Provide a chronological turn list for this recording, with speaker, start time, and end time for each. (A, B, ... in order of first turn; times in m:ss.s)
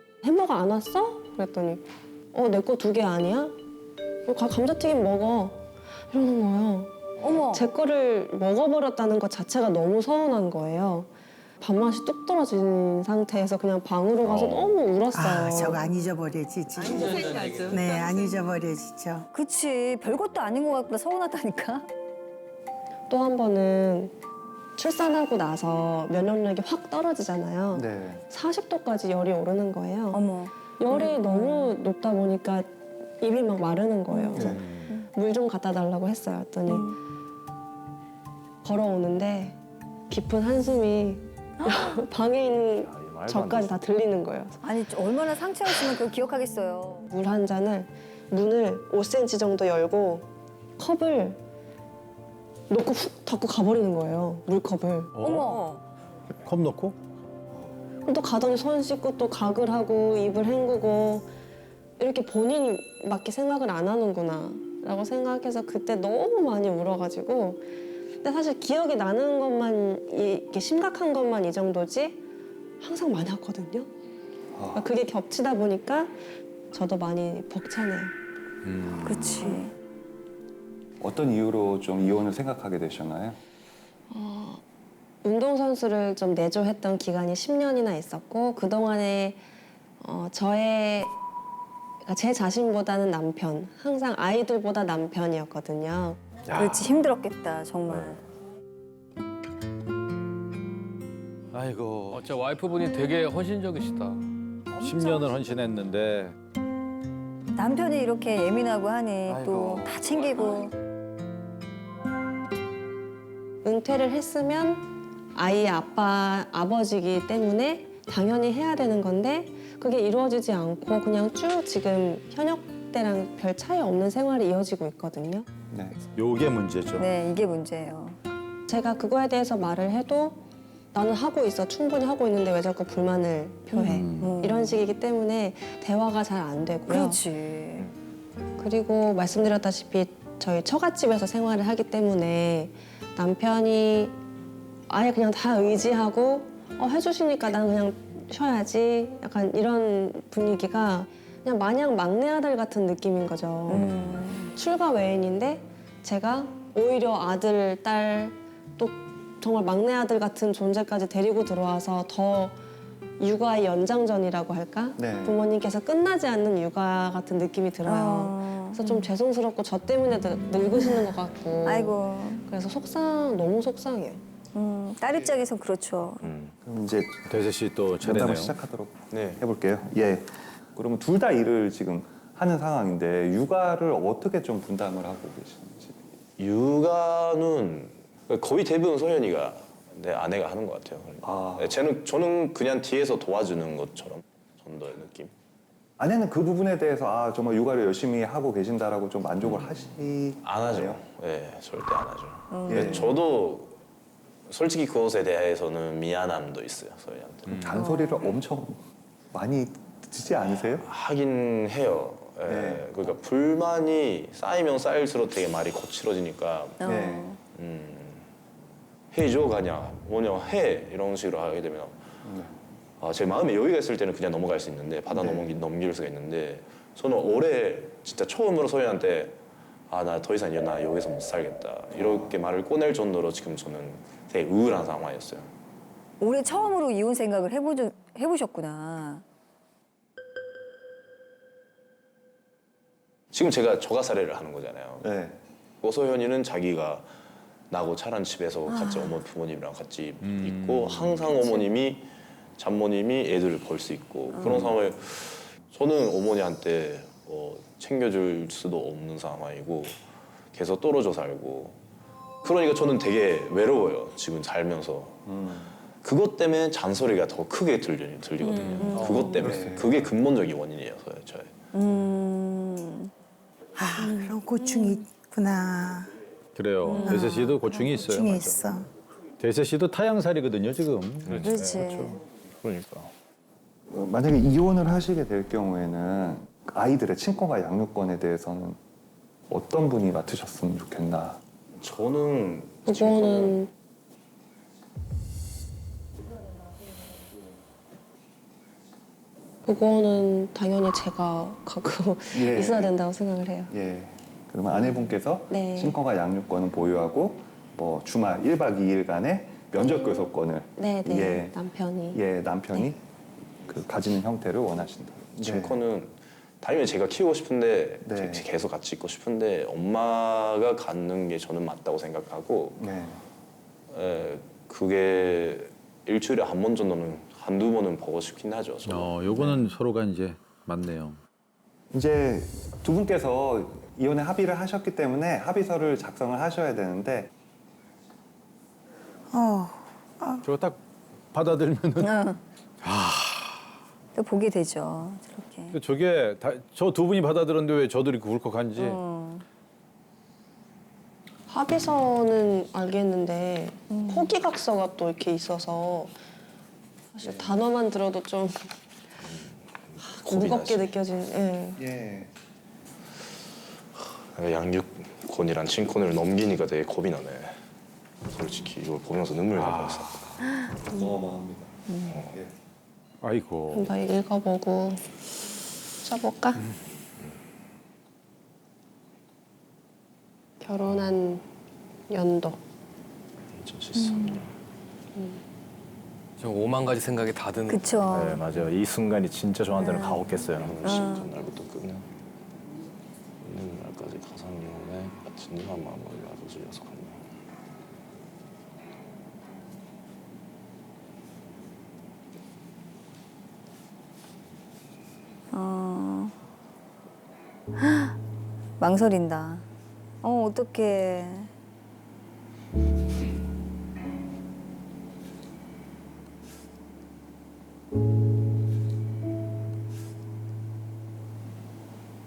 0:00.2-0:03.6 A
0:04.2-0:07.0 A
0:07.2-0:07.7 B
0:07.5-0:15.8 A
0:14.2-0:14.7 C
0:15.1-0:19.2 D
0:16.8-0:18.1 E
0:19.3-0:21.9 B
0:23.1-0:24.1 A
0:24.8-0:30.2 A
0:27.7-0:28.2 F
0:30.1-0:31.7 B
0:30.8-0:36.9 A
0:34.1-0:35.1 B
0:34.3-0:34.6 F
0:34.6-0:34.9 C
0:36.7-0:37.0 B
0:38.6-0:44.6 A
0:41.6-0:42.0 B
0:42.8-0:43.8 G
0:44.6-0:47.1 B
0:47.1-0:51.4 A
0:52.7-0:55.1 A
0:55.1-0:55.6 C
0:55.2-0:55.8 B
0:56.4-0:57.0 C
0:58.0-1:01.3 A
1:02.0-1:07.6 A
1:08.2-1:12.2 A
1:12.8-1:13.9 A
1:14.5-1:14.8 F
1:14.7-1:16.1 A
1:16.7-1:18.1 A
1:18.6-1:19.6 C
1:19.0-1:19.7 B
1:21.0-1:23.4 F
1:24.1-1:24.6 A
1:25.2-1:29.4 A
1:30.0-1:31.1 A
1:32.0-1:36.2 A
1:36.5-1:36.9 C
1:36.5-1:38.2 B
1:41.5-1:42.2 C
1:42.1-1:44.2 E
1:44.8-1:46.4 C
1:47.6-1:50.7 B
1:49.3-1:49.9 F
1:50.0-1:50.6 E
1:53.6-2:05.4 A
2:05.7-2:06.0 F
2:06.1-2:07.1 C
2:07.0-2:08.2 B
2:08.7-2:10.4 A
2:10.9-2:17.2 A
2:13.8-2:14.3 C
2:14.1-2:14.8 B
2:16.9-2:17.9 B
2:18.6-2:24.2 A
2:24.9-2:33.9 A
2:33.7-2:34.5 B
2:33.7-2:34.2 C
2:34.5-2:42.6 A
2:43.2-2:54.2 A
2:45.0-2:45.4 F
2:47.8-2:49.1 B
2:50.8-2:51.1 B
2:51.6-2:52.4 B
2:54.5-2:56.3 B
2:56.2-2:56.5 G
2:56.6-2:57.4 F
2:57.3-2:58.6 C
2:58.0-3:06.0 F
2:59.1-2:59.4 G
3:06.4-3:15.3 G
3:11.2-3:11.8 F
3:16.0-3:21.0 F
3:20.4-3:23.8 G
3:22.5-3:23.1 B
3:22.7-3:23.1 F
3:24.5-3:27.6 G
3:27.5-3:27.8 C
3:27.5-3:28.8 F
3:27.7-3:28.3 B
3:29.3-3:30.8 F
3:30.8-3:36.8 G
3:32.5-3:33.1 F
3:36.8-3:37.4 B
3:36.8-3:37.3 F
3:37.5-3:38.3 G
3:39.1-3:42.0 G
3:42.2-3:42.6 F
3:43.0-3:49.4 G
3:45.1-3:45.5 F
3:49.9-3:55.5 G
3:51.9-3:52.3 F
3:56.2-3:59.2 B
4:03.3-4:05.1 G
4:05.0-4:05.4 F
4:05.8-4:07.1 G
4:07.7-4:20.0 G
4:08.7-4:09.2 B
4:10.2-4:11.4 C
4:14.3-4:14.7 B
4:20.5-4:21.8 G
4:22.4-4:25.2 G
4:25.2-4:25.7 F
4:26.0-4:31.5 G
4:28.4-4:29.4 B
4:28.6-4:29.7 C
4:29.4-4:30.0 F
4:31.7-4:33.1 B
4:33.8-4:36.1 D
4:34.0-4:35.0 B
4:36.5-4:38.6 C
4:36.8-4:38.0 B
4:37.0-4:38.9 D
4:39.4-4:42.2 C
4:41.2-4:43.1 G
4:41.4-4:42.2 B
4:43.9-4:48.8 F
4:49.5-4:51.4 F
4:51.8-4:53.6 G
4:52.9-4:53.7 A
4:59.6-5:03.7 A
5:02.3-5:02.9 F
5:03.7-5:11.6 F
5:05.5-5:06.0 A
5:10.8-5:12.2 A
5:12.1-5:13.0 F
5:13.7-5:15.8 F
5:15.4-5:22.8 G
5:18.0-5:18.5 F
5:22.8-5:23.2 F
5:23.9-5:29.2 G
5:28.8-5:31.2 C
5:31.9-5:37.3 F
5:39.3-5:40.4 D
5:40.4-5:40.8 C
5:41.3-5:42.1 C
5:42.0-5:42.4 B
5:42.8-5:43.6 C
5:44.1-5:45.8 B
5:45.7-5:49.0 C
5:48.8-5:49.4 B
5:51.5-5:56.1 A
5:53.9-5:54.3 B
5:57.1-5:58.7 A
5:59.3-6:00.9 G
6:00.2-6:01.8 A
6:01.8-6:02.3 F
6:04.3-6:07.6 G
6:08.2-6:10.2 G
6:09.6-6:10.4 C
6:10.9-6:12.5 F
6:12.1-6:12.3 G
6:13.2-6:13.9 C
6:13.7-6:15.0 A
6:16.0-6:16.6 A
6:20.6-6:21.4 A
6:22.1-6:22.6 A
6:23.5-6:24.5 G
6:24.0-6:24.4 B
6:25.2-6:25.4 A
6:26.4-6:27.9 E
6:27.7-6:28.4 B
6:28.1-6:32.1 G
6:29.7-6:31.3 B
6:33.4-6:37.2 G
6:45.5-6:46.3 B
6:47.8-6:48.2 B
6:48.8-6:49.6 B
6:50.2-6:51.5 B